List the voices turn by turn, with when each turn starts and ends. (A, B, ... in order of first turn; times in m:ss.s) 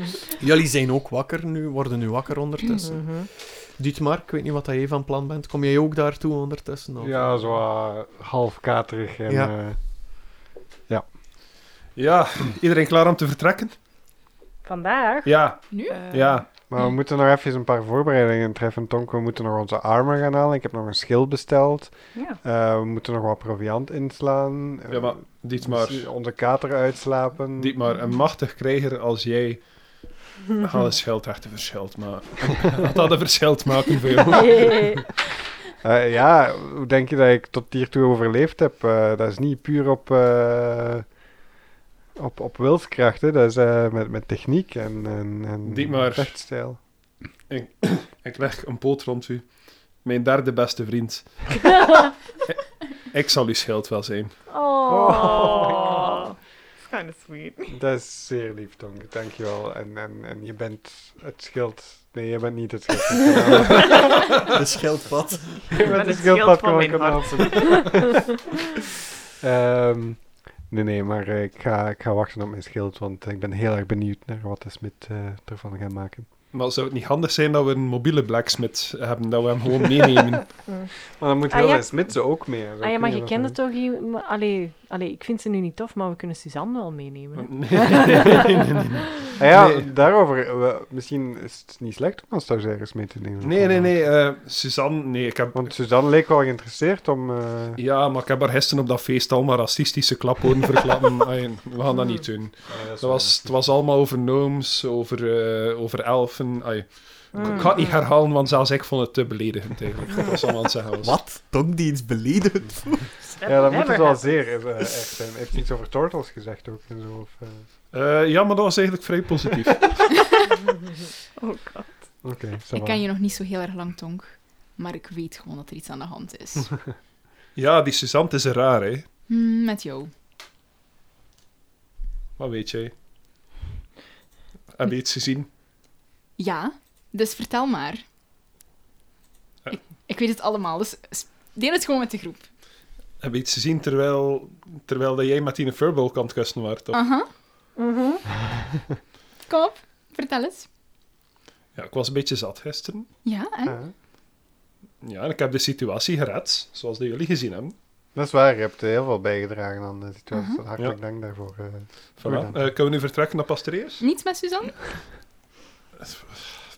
0:00.4-0:07.2 A
0:03.0-0:03.3 B
0:07.0-0:09.8 C
0:12.0-0:13.7 D
0:14.6-0:15.3 B
0:15.2-0:16.5 D
0:15.7-0:16.1 E
0:15.9-0:16.4 F
0:16.7-0:27.8 C
0:24.9-0:26.1 D
0:27.6-0:30.1 D
0:30.6-0:35.0 D
0:34.3-0:35.2 B
0:35.8-0:41.1 C
0:42.1-0:46.8 C
0:45.6-0:46.4 D
0:47.5-0:51.7 D
0:53.1-0:54.4 D
0:54.5-0:56.0 B
0:54.9-0:56.2 C
0:55.0-0:57.8 F
0:57.7-1:04.3 C
1:04.4-1:05.9 A
1:05.7-1:08.4 C
1:05.7-1:07.9 F
1:09.4-1:16.3 C
1:16.5-1:20.5 D
1:21.2-1:23.6 C
1:21.5-1:22.0 B
1:22.8-1:29.3 B
1:27.4-1:29.9 D
1:29.3-1:34.0 C
1:33.4-1:35.7 D
1:35.5-1:37.8 C
1:37.8-1:51.2 D
1:42.7-1:43.5 C
1:47.3-1:48.0 B
1:51.0-1:53.1 A
1:53.4-1:54.4 B
1:53.4-1:57.6 C
1:57.9-1:59.9 D
2:01.4-2:01.9 F
2:02.2-2:03.0 C
2:02.7-2:06.7 E
2:07.6-2:09.0 D
2:09.3-2:10.1 E
2:12.4-2:12.9 D
2:14.7-2:15.5 D
2:16.4-2:18.0 E
2:19.7-2:22.4 E
2:23.2-2:27.0 D
2:26.9-2:27.3 E
2:27.8-2:28.2 B
2:29.5-2:30.7 E
2:31.7-2:33.1 D
2:33.2-2:33.8 E
2:33.6-2:33.9 C
2:35.0-2:37.7 D
2:38.1-2:42.6 C
2:40.3-2:40.6 E
2:42.2-2:44.0 D
2:44.0-2:44.8 E
2:46.0-2:46.5 D